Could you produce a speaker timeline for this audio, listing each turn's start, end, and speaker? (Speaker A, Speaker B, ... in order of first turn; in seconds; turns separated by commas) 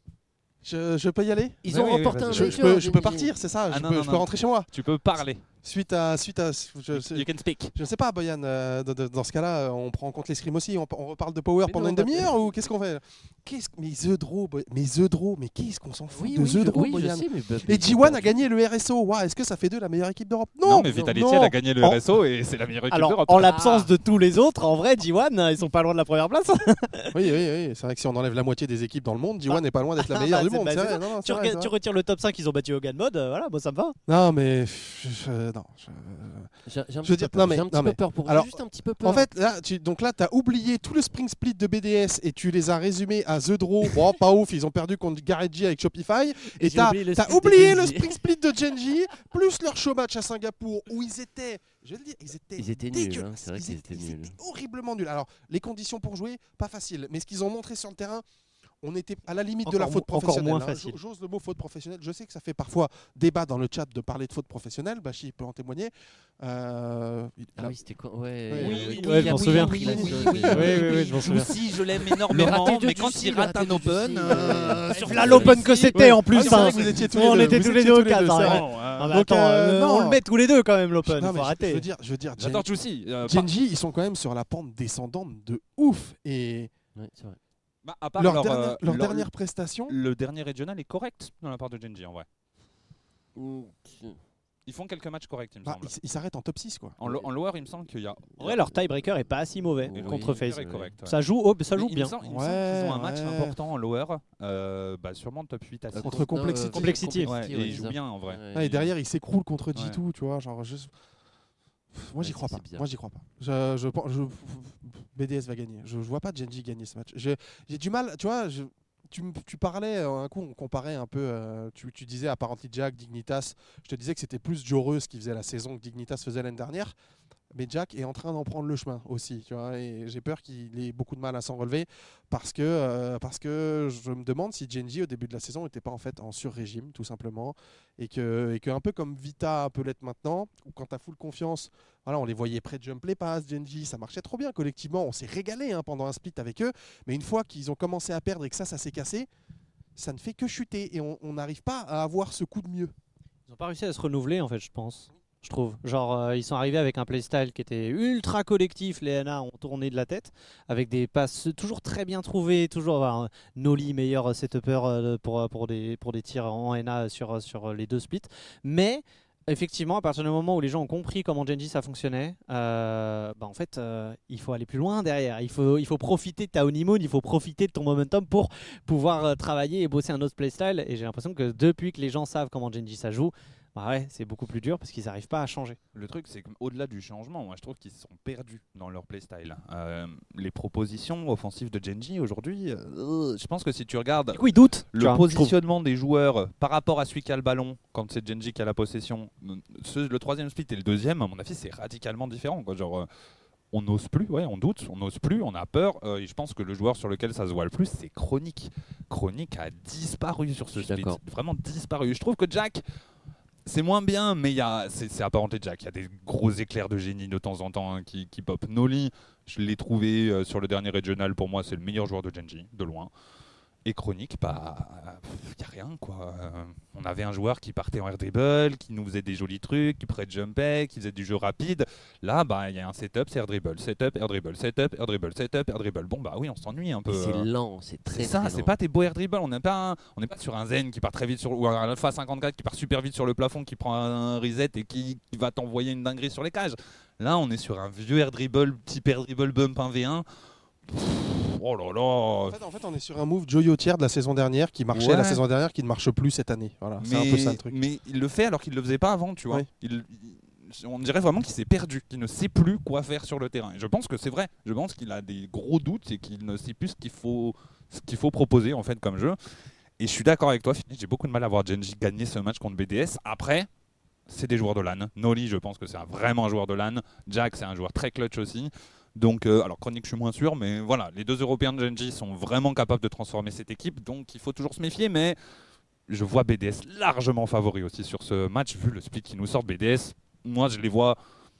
Speaker A: 0.6-1.6, Speaker B: 1.6-3.3, Speaker C: 1.6-2.9, Speaker A: 2.2-4.7, Speaker C: 3.7-5.4, Speaker A: 5.6-20.9, Speaker C: 6.9-7.7, Speaker B: 11.6-12.5, Speaker B: 16.1-18.4, Speaker C: 20.6-23.6, Speaker D: 20.9-22.0, Speaker D: 22.9-27.1, Speaker B: 23.4-23.9, Speaker A: 27.1-31.7, Speaker D: 29.5-34.0, Speaker A: 34.1-36.5, Speaker B: 36.6-39.3, Speaker A: 37.0-58.2, Speaker B: 46.6-48.2, Speaker B: 52.6-54.4, Speaker A: 58.8-67.8, Speaker D: 59.6-61.0, Speaker B: 67.6-75.7, Speaker A: 68.5-70.8, Speaker C: 68.5-77.6, Speaker D: 68.9-69.8, Speaker D: 70.5-71.5, Speaker D: 74.9-81.8, Speaker A: 75.9-80.2, Speaker C: 78.4-79.2, Speaker A: 81.0-82.7, Speaker C: 82.4-83.5, Speaker A: 83.2-86.7, Speaker B: 86.9-87.4, Speaker C: 87.8-89.3, Speaker A: 88.2-89.9, Speaker C: 89.9-92.2, Speaker B: 93.3-94.2, Speaker C: 94.7-95.9, Speaker A: 95.6-96.9, Speaker C: 97.0-98.6, Speaker D: 98.4-102.1, Speaker B: 99.8-100.9, Speaker C: 99.9-101.2, Speaker C: 101.7-106.2, Speaker A: 102.2-103.5, Speaker B: 105.9-108.8, Speaker A: 106.0-107.0, Speaker D: 106.7-107.3, Speaker C: 107.2-108.8, Speaker A: 108.5-110.9, Speaker A: 111.9-126.9, Speaker B: 112.2-112.8, Speaker A: 127.5-149.3, Speaker A: 149.9-152.9, Speaker D: 153.5-185.8, Speaker C: 185.9-203.1, Speaker D: 194.3-195.5, Speaker C: 203.7-212.8, Speaker B: 210.7-211.2, Speaker C: 213.7-223.1, Speaker C: 223.8-237.5, Speaker B: 237.1-238.7, Speaker C: 238.1-250.2, Speaker C: 250.9-252.6, Speaker A: 252.5-257.8, Speaker C: 254.9-255.4, Speaker C: 257.0-269.4, Speaker C: 270.0-273.7, Speaker C: 274.3-285.4, Speaker C: 286.1-291.2